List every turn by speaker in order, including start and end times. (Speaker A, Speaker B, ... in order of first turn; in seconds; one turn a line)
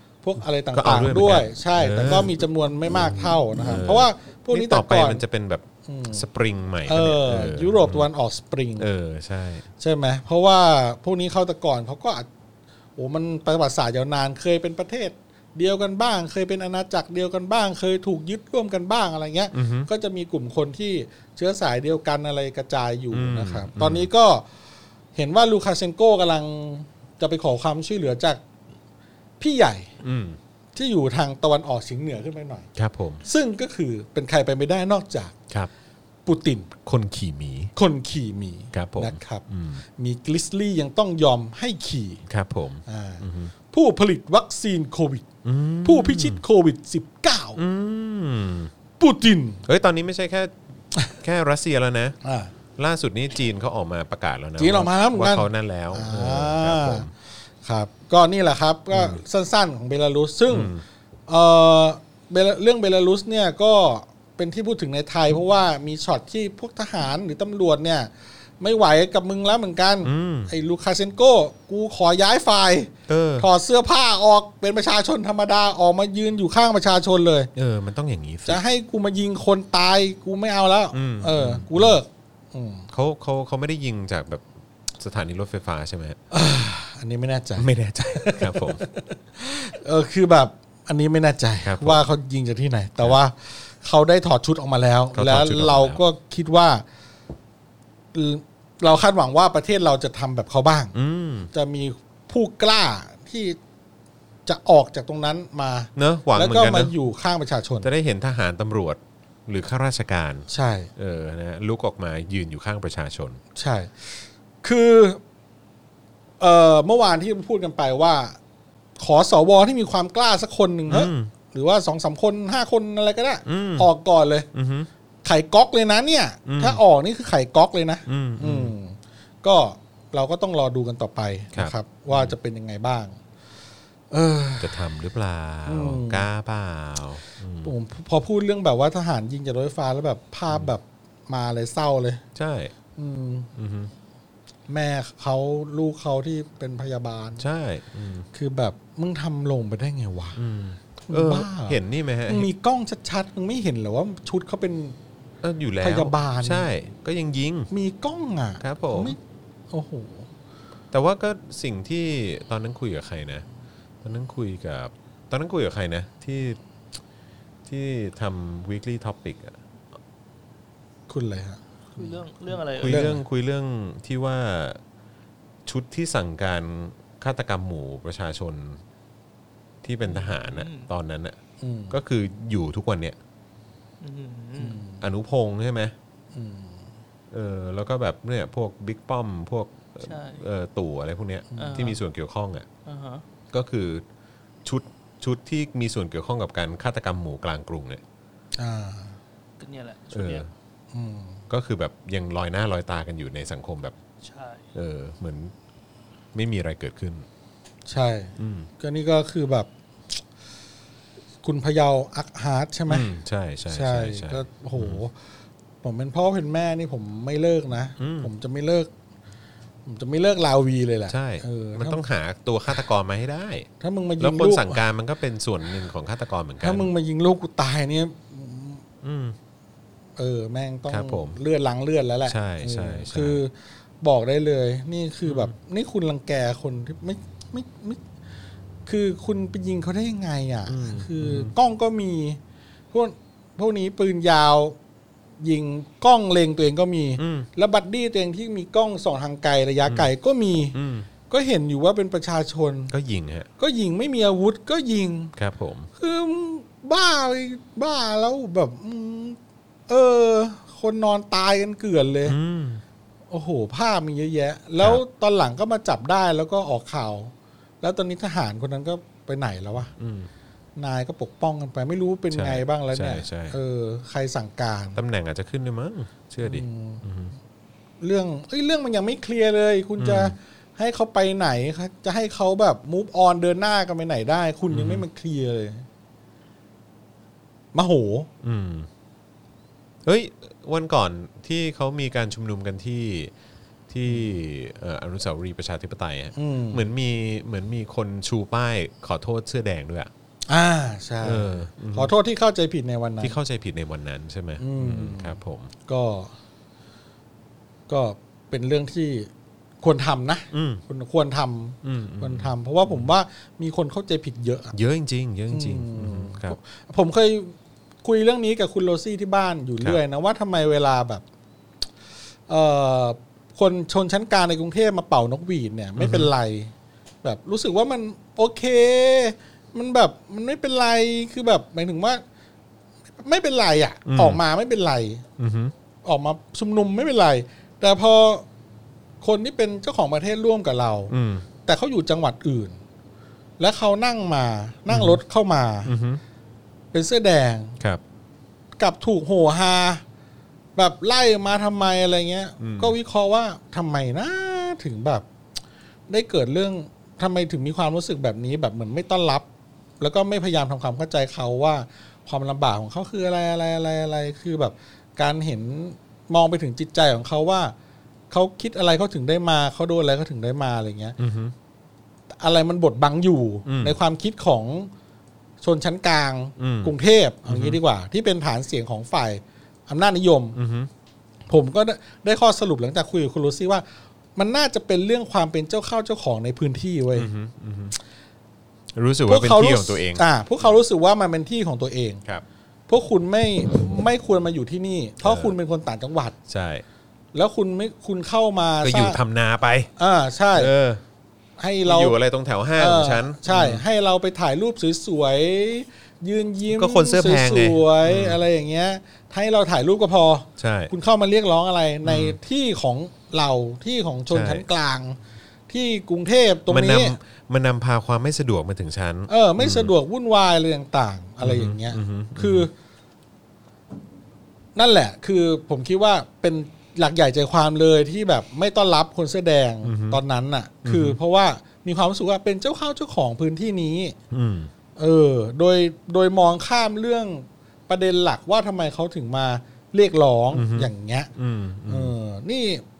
Speaker A: 0.2-5.2
Speaker B: 0.7-8.1
Speaker A: 5.9-6.2
Speaker A: 6.9-8.9
Speaker B: 8.8-9.6
Speaker A: 9.8-12.3
Speaker A: 13.0-24.4
Speaker B: 19.5-19.9
Speaker B: 23.1-24.1
Speaker A: 25.1-28.4
Speaker A: 29.4-29.9
Speaker B: 30.0-30.4
Speaker A: 30.7-32.7
Speaker B: 32.8-33.2
Speaker A: 33.2-35.4
Speaker A: 36.3-36.7
Speaker B: 36.9-37.7
Speaker A: 37.8-39.4
Speaker B: 38.7-39.8
Speaker A: 40.0-42.2
Speaker B: 42.3-43.5
Speaker A: 42.9-45.3
Speaker B: 45.4-46.4
Speaker A: 45.8-47.6
Speaker B: 47.6-48.7
Speaker A: 49.0-49.6
Speaker B: 49.6-50.5
Speaker B: 51.1-52.1
Speaker A: 52.2-52.5
Speaker B: 52.8-57.1
Speaker A: 54.6-57.1
Speaker A: 57.6-60.7
Speaker B: 58.9-59.2
Speaker B: 60.5-60.8
Speaker A: 61.3-77.5
Speaker B: 70.0-70.5
Speaker B: 73.1-73.5
Speaker B: 77.5-78.6
Speaker A: 78.5-82.9
Speaker B: 80.9-82.0
Speaker B: 82.9-84.5
Speaker B: 85.0-86.2
Speaker A: 86.3-96.8
Speaker B: 87.6-88.8
Speaker B: 91.6-92.0
Speaker B: 95.1-96.0
Speaker A: 98.1-100.9
Speaker B: 100.9-101.5
Speaker A: 101.5-103.6
Speaker A: 104.5-107.9
Speaker B: 106.0-106.9
Speaker B: 107.8-113.4
Speaker A: 110.5-110.9
Speaker A: 113.5-115.2
Speaker A: 116.4-118.4
Speaker A: 119.0-124.5
Speaker B: 120.9-121.3
Speaker B: 123.5-123.9
Speaker B: 124.5-124.9
Speaker A: 125.2-133.2
Speaker B: 126.5-126.8
Speaker B: 128.1-128.7
Speaker B: 131.5-132.4
Speaker A: 134.1-134.8
Speaker B: 134.6-137.7
Speaker A: 135.7-136.3
Speaker A: 137.6-142.2
Speaker B: 142.3-142.7
Speaker A: 142.9-143.5
Speaker B: 143.6-143.9
Speaker A: 144.7-147.4
Speaker B: 147.4-148.3
Speaker A: 148.3-150.4
Speaker B: 150.3-152.5
Speaker A: 151.1-155.0
Speaker B: 155.4-157.7
Speaker A: 155.8-156.7
Speaker A: 157.7-159.2
Speaker B: 158.6-159.2
Speaker A: 159.7-160.3
Speaker B: 160.9-163.4
Speaker B: 164.0-166.6
Speaker B: 167.7-169.6
Speaker A: 171.1-171.6
Speaker C: 171.9-173.1
Speaker B: 172.8-174.8
Speaker A: 172.8-173.2
Speaker B: 175.7-178.8
Speaker B: 179.8-181.4
Speaker C: 180.1-180.9
Speaker A: 181.6-182.0
Speaker B: 181.9-183.2
Speaker C: 184.0-184.8
Speaker A: 184.6-185.0
Speaker B: 185.0-185.9
Speaker A: 186.3-186.9
Speaker B: 187.3-192.7
Speaker C: 190.0-190.4
Speaker A: 191.5-191.9
Speaker C: 191.6-192.0
Speaker C: 192.9-193.2
Speaker B: 193.5-194.0
Speaker B: 194.6-198.0
Speaker A: 198.6-199.2
Speaker C: 199.6-200.5
Speaker B: 200.1-200.5
Speaker A: 200.9-201.4
Speaker B: 201.5-203.9
Speaker C: 204.2-204.7
Speaker B: 204.7-205.5
Speaker B: 206.3-207.3
Speaker A: 207.9-209.7
Speaker B: 208.4-208.7
Speaker A: 211.4-213.1
Speaker B: 212.9-215.0
Speaker A: 213.7-215.1
Speaker A: 215.8-218.9
Speaker B: 218.0-218.3
Speaker A: 219.9-222.0
Speaker B: 221.1-223.7
Speaker A: 223.8-224.8
Speaker B: 224.2-226.9
Speaker A: 226.6-228.8
Speaker B: 229.0-229.4
Speaker A: 230.2-238.0
Speaker B: 230.9-231.4
Speaker B: 232.3-233.4
Speaker B: 235.2-235.5
Speaker A: 238.9-242.4
Speaker B: 240.7-241.5
Speaker A: 242.9-244.8
Speaker A: 245.4-250.8
Speaker B: 247.2-247.5
Speaker B: 250.7-251.1
Speaker A: 251.3-252.9
Speaker B: 252.9-253.5
Speaker A: 253.6-255.3
Speaker B: 255.4-255.9
Speaker A: 256.0-262.4
Speaker B: 262.3-262.8
Speaker A: 263.3-269.9
Speaker B: 270.0-270.3
Speaker A: 270.8-275.0
Speaker B: 272.3-273.6
Speaker B: 274.9-277.3
Speaker A: 276.4-277.0
Speaker A: 278.0-285.9
Speaker B: 280.0-280.3
Speaker B: 284.7-285.1
Speaker A: 287.7-288.3
Speaker B: 288.4-288.9
Speaker B: 290.1-293.3
Speaker B: 293.9-300.1
Speaker A: 296.3-296.8
Speaker A: 300.5-303.4
Speaker B: 301.2-302.1
Speaker B: 303.2-305.7
Speaker A: 304.6-306.3
Speaker A: 307.9-309.3
Speaker A: 309.8-314.7
Speaker B: 310.5-310.8
Speaker B: 311.8-313.1
Speaker B: 314.7-316.6
Speaker A: 315.5-321.2
Speaker A: 322.5-326.7
Speaker B: 326.0-326.3
Speaker A: 327.2-332.2
Speaker A: 333.2-335.2
Speaker B: 334.1-334.4
Speaker B: 335.4-335.7
Speaker A: 336.0-338.4
Speaker A: 339.2-341.1
Speaker B: 341.1-341.4
Speaker A: 341.6-342.8
Speaker A: 343.6-345.9
Speaker B: 344.9-345.2
Speaker B: 345.9-346.2
Speaker A: 346.9-347.8
Speaker A: 348.8-350.0
Speaker A: 350.8-355.2
Speaker B: 352.6-352.9
Speaker A: 356.1-359.4
Speaker A: 360.0-367.7
Speaker A: 368.3-371.1
Speaker B: 371.2-371.5
Speaker A: 372.4-374.9
Speaker B: 373.6-373.9
Speaker A: 375.6-380.6
Speaker B: 376.6-376.9
Speaker B: 377.5-377.8
Speaker B: 380.6-380.9
Speaker A: 381.5-383.8
Speaker A: 384.4-387.3
Speaker B: 387.1-387.9
Speaker B: 388.9-390.2
Speaker A: 389.3-392.2
Speaker A: 392.9-396.4
Speaker B: 395.2-395.6
Speaker B: 396.5-396.8
Speaker A: 397.3-399.2
Speaker B: 398.8-399.9
Speaker A: 400.0-400.7
Speaker B: 400.5-401.0
Speaker A: 401.6-402.2
Speaker B: 401.8-403.8
Speaker A: 402.8-415.2
Speaker B: 406.7-408.4
Speaker B: 410.6-410.9
Speaker B: 412.1-412.4
Speaker B: 414.3-414.6
Speaker A: 415.7-417.2
Speaker B: 416.7-419.9
Speaker A: 419.3-422.7
Speaker B: 421.4-422.7
Speaker A: 424.8-434.2
Speaker B: 429.8-430.2
Speaker B: 430.8-431.2
Speaker B: 434.3-434.7
Speaker A: 434.9-441.3
Speaker B: 440.5-442.1
Speaker A: 441.9-442.8